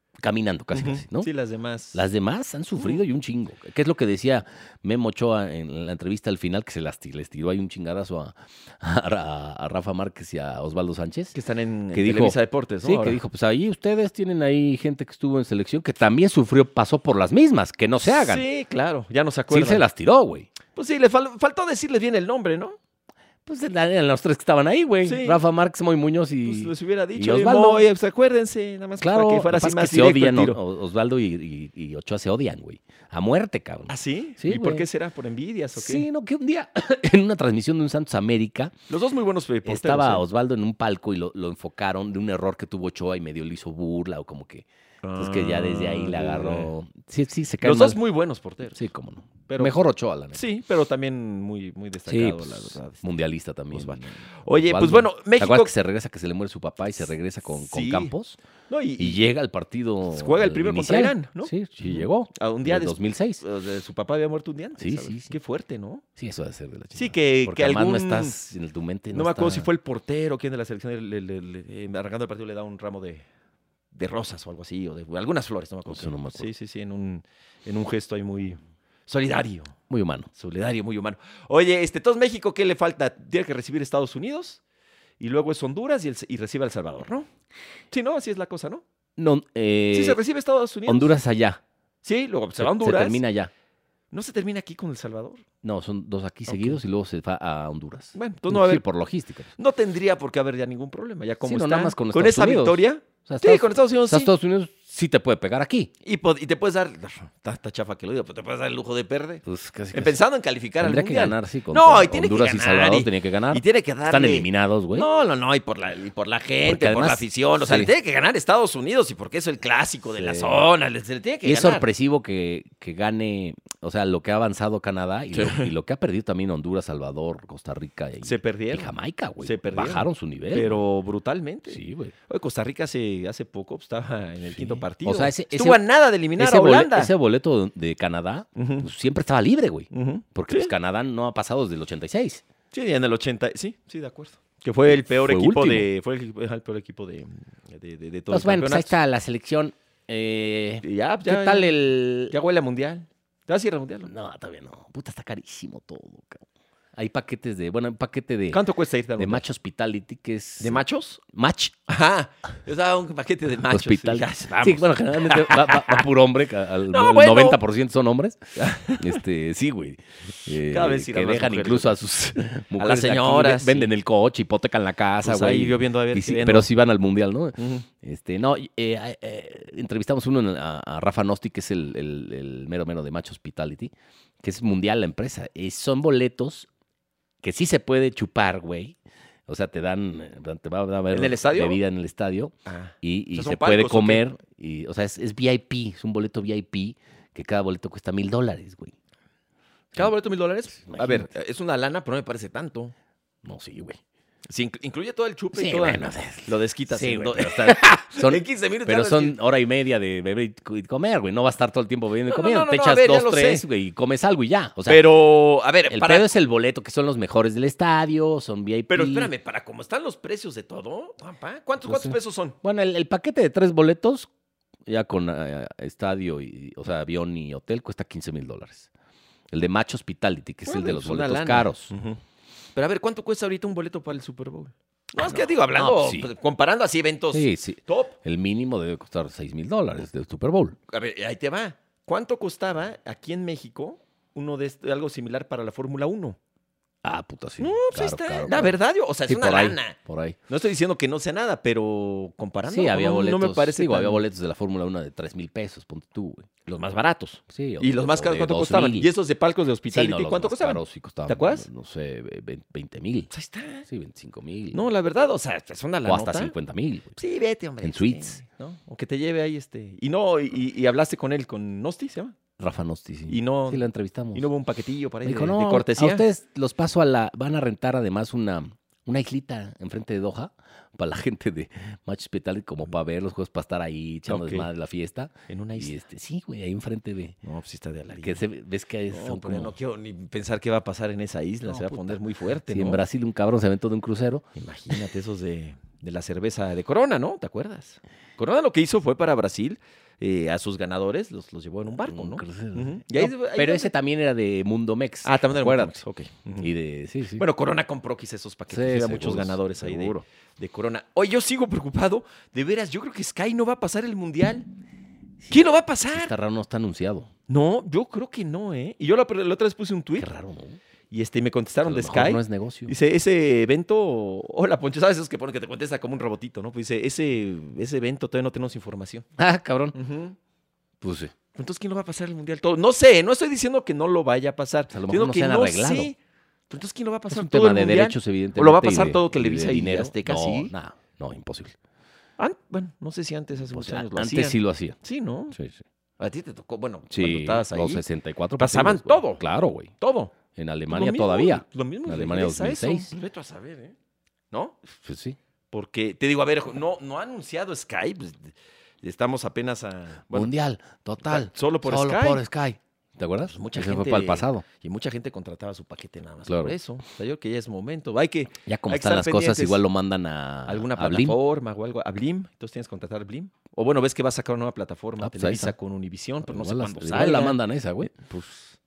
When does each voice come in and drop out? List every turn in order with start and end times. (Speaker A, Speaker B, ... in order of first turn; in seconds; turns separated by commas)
Speaker A: 0.2-1.3, Speaker B: 0.7-2.0, Speaker A: 1.9-11.4, Speaker B: 11.3-13.2, Speaker A: 11.9-18.4, Speaker B: 18.0-19.9, Speaker A: 19.5-20.5, Speaker B: 20.7-22.8, Speaker A: 23.5-27.9, Speaker B: 25.0-25.4, Speaker B: 26.4-30.6, Speaker A: 29.0-34.9, Speaker B: 33.9-36.1, Speaker A: 35.8-38.8, Speaker B: 38.9-40.2, Speaker A: 39.6-48.0, Speaker B: 45.0-46.7, Speaker B: 47.6-48.8, Speaker A: 48.8-50.4, Speaker B: 49.5-53.0, Speaker A: 52.1-58.4, Speaker B: 53.7-55.7, Speaker B: 57.6-58.1, Speaker B: 58.7-59.2, Speaker A: 59.0-63.4, Speaker B: 60.1-66.0, Speaker A: 64.8-65.4, Speaker A: 66.2-69.7, Speaker B: 66.9-68.4, Speaker B: 69.1-73.2, Speaker B: 73.9-79.8, Speaker A: 75.9-76.5, Speaker A: 79.9-80.3, Speaker B: 80.3-84.6, Speaker B: 85.2-87.3, Speaker B: 87.9-88.8, Speaker A: 89.2-90.2, Speaker B: 89.9-91.2, Speaker A: 90.9-91.6, Speaker B: 92.0-93.2, Speaker A: 92.6-93.5, Speaker B: 94.1-95.4, Speaker A: 95.6-99.5, Speaker B: 96.5-96.8, Speaker B: 98.2-98.8, Speaker B: 99.6-104.3, Speaker A: 101.4-105.9, Speaker B: 106.0-121.9, Speaker A: 109.5-110.2, Speaker A: 110.8-115.1, Speaker A: 116.7-117.9, Speaker A: 120.2-120.7, Speaker A: 121.4-130.8, Speaker B: 125.3-125.7, Speaker B: 128.2-137.1, Speaker A: 131.7-132.1, Speaker A: 134.5-135.8, Speaker A: 136.4-142.4, Speaker B: 138.6-138.9, Speaker B: 139.9-140.7, Speaker B: 142.7-148.9, Speaker A: 144.9-145.9, Speaker A: 148.3-152.3, Speaker B: 150.8-154.1, Speaker A: 154.1-158.6, Speaker B: 158.5-159.4, Speaker A: 159.2-161.8, Speaker B: 160.6-161.2, Speaker B: 161.9-166.1, Speaker A: 163.7-186.7, Speaker B: 166.9-167.6, Speaker B: 168.6-169.2, Speaker B: 170.6-171.9, Speaker B: 172.8-173.9, Speaker B: 175.2-176.7, Speaker B: 177.6-177.9, Speaker A: 187.4-198.9, Speaker B: 191.1-191.8, Speaker B: 192.7-194.3, Speaker B: 199.9-202.9, Speaker A: 200.7-201.3, Speaker A: 203.4-204.0, Speaker B: 204.5-209.4, Speaker A: 205.5-215.2, Speaker B: 212.3-213.7, Speaker B: 214.9-216.3, Speaker A: 215.9-219.3, Speaker B: 218.9-222.6, Speaker A: 221.8-224.3, Speaker A: 224.9-228.9, Speaker A: 229.5-231.9, Speaker B: 230.7-232.2, Speaker B: 232.8-238.2, Speaker A: 235.2-236.3, Speaker A: 237.3-240.8, Speaker B: 240.9-246.4, Speaker A: 247.0-250.4, Speaker B: 247.6-250.0, Speaker B: 250.5-254.2, Speaker A: 252.7-256.5, Speaker B: 256.7-261.7, Speaker A: 257.5-259.1, Speaker A: 259.9-263.3, Speaker B: 263.3-263.9, Speaker A: 263.9-264.8, Speaker B: 264.7-266.5, Speaker A: 266.1-267.2, Speaker B: 267.2-272.4, Speaker A: 267.8-268.4, Speaker A: 272.6-274.5, Speaker B: 273.3-276.3, Speaker A: 275.2-287.4, Speaker B: 284.3-284.7, Speaker B: 285.5-286.0, Speaker B: 287.4-288.4, Speaker A: 288.1-289.8, Speaker B: 289.1-293.0, Speaker A: 291.7-294.4, Speaker B: 294.6-303.9, Speaker A: 302.0-306.0, Speaker B: 305.2-306.7, Speaker A: 306.6-307.4, Speaker B: 307.4-314.7, Speaker A: 308.7-310.2, Speaker B: 315.5-316.3, Speaker A: 316.1-317.3, Speaker B: 317.5-320.3, Speaker A: 320.2-320.8, Speaker B: 321.1-329.3, Speaker A: 321.8-322.9, Speaker A: 329.4-330.0, Speaker B: 329.9-330.4, Speaker A: 331.0-331.3, Speaker B: 331.6-336.2, Speaker A: 334.9-336.1, Speaker B: 336.7-340.7, Speaker A: 337.3-341.8, Speaker B: 342.4-345.6, Speaker A: 343.7-345.0, Speaker A: 345.5-345.8, Speaker B: 346.2-348.0, Speaker A: 347.1-349.9, Speaker B: 348.6-349.4, Speaker B: 350.0-350.3, Speaker A: 350.6-353.1, Speaker B: 350.9-353.9, Speaker B: 354.5-354.8, Speaker A: 355.1-355.4, Speaker B: 355.7-360.5, Speaker A: 360.3-364.6, Speaker B: 361.2-362.4, Speaker B: 363.4-369.8, Speaker A: 366.5-366.8, Speaker A: 368.6-371.4, Speaker B: 370.7-377.6, Speaker A: 375.2-375.8, Speaker A: 376.4-378.3, Speaker B: 378.2-378.7